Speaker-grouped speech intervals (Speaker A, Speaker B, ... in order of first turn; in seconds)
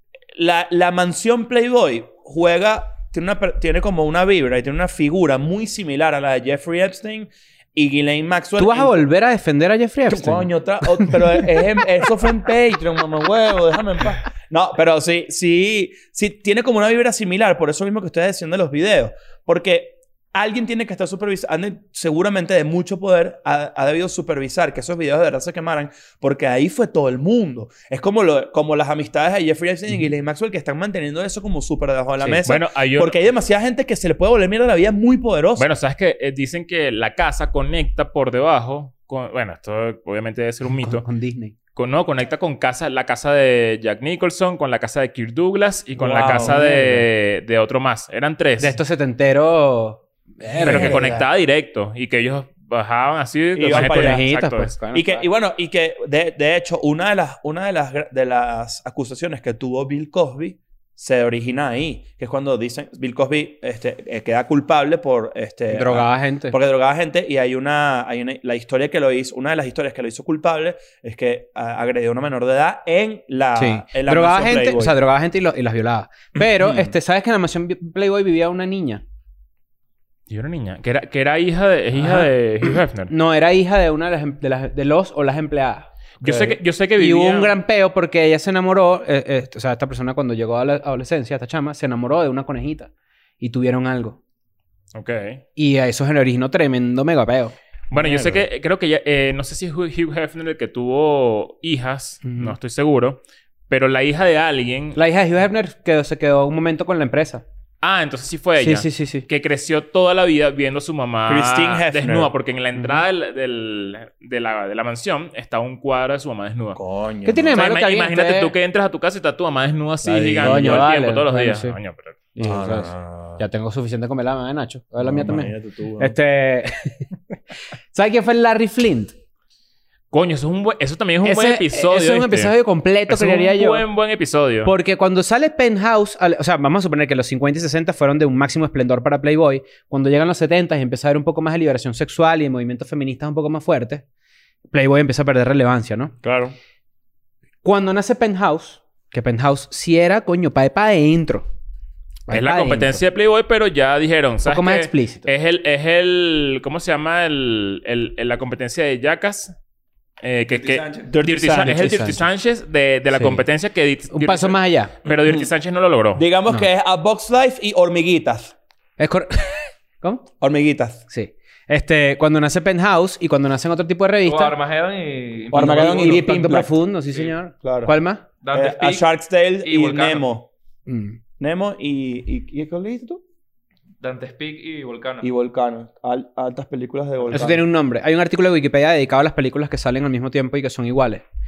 Speaker A: 0.3-8.9, 10.1-35.7, 46.0-46.7, 50.6-51.2, 53.5-54.2, 54.9-75.0, 76.3-76.9, 86.2-86.6, 97.9-98.4, 111.3-112.3, 116.8-117.6, 120.0-120.9, 122.3-123.4, 125.0-126.1, 146.2-146.5, 161.1-162.1, 165.1-165.5, 166.1-168.5, 170.4-171.0, 175.5-176.7, 177.6-177.9, 178.5-180.5, 181.4-183.2, 185.2-187.6
Speaker B: 8.6-11.5, 40.8-41.5, 46.3-47.0, 48.6-51.0, 53.7-55.3, 65.7-66.5, 73.6-79.0, 83.1-85.9, 87.0-94.2, 95.5-97.5, 102.2-102.5, 104.9-107.4, 108.6-109.2, 112.8-113.0, 117.2-118.5, 120.4-121.8, 122.4-127.0, 127.9-129.1, 131.2-133.8, 134.6-144.0, 144.7-146.1, 147.6-151.5, 152.3-153.0, 154.4-155.3, 161.6-162.2, 163.1-163.4, 164.1-164.9, 169.0-170.2, 171.1-174.6, 175.5-178.2, 180.9-181.2, 187.3-191.2
Speaker C: 32.4-33.2, 35.6-41.0, 41.7-48.8, 50.6-54.7, 80.3-83.1, 86.2-87.5, 94.9-95.4, 97.9-105.0, 107.8-116.8, 117.5-122.2, 130.1-132.5, 133.1-134.7, 152.3-159.5, 160.2-166.2
Speaker D: 160.5-161.1, 174.2-176.5, 178.4-179.1, 179.6-180.2, 184.0-185.3